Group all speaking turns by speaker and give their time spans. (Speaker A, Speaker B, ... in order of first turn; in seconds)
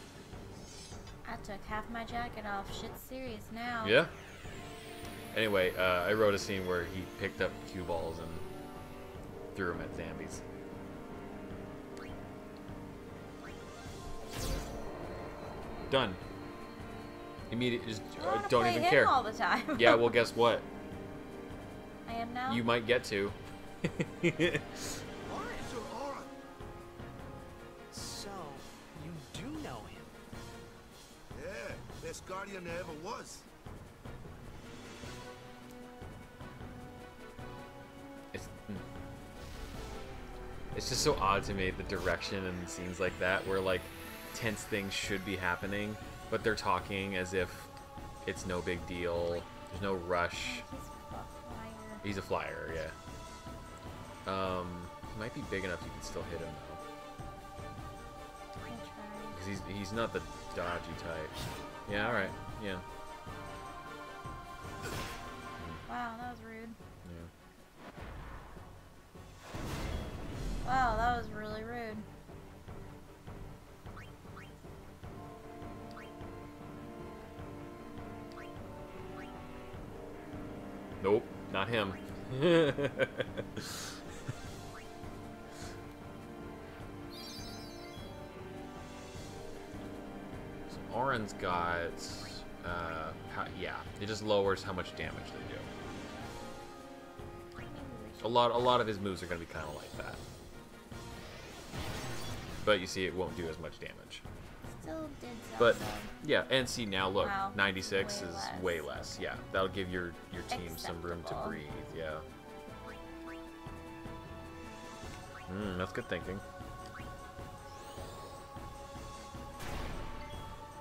Speaker A: 1.2-4.0, 18.2-20.2, 22.1-22.6, 50.4-52.0, 58.7-59.4, 61.9-62.4, 65.9-66.8, 70.6-72.0, 97.6-98.5, 104.7-106.1, 107.2-108.9, 110.5-111.6
Speaker B: 3.8-4.1, 5.3-8.4, 9.5-10.4, 15.9-16.2, 17.5-19.2, 19.7-20.7, 22.5-25.0, 38.3-38.8, 40.7-47.7, 48.2-50.6, 52.0-52.9, 54.2-56.8, 59.3-62.8, 67.0-67.3, 81.0-84.0, 90.7-95.7, 98.2-100.2, 102.6-104.2, 105.6-112.2, 115.5-116.4
Speaker C: 25.2-25.7, 27.9-30.1
Speaker D: 25.3-26.3, 31.3-33.5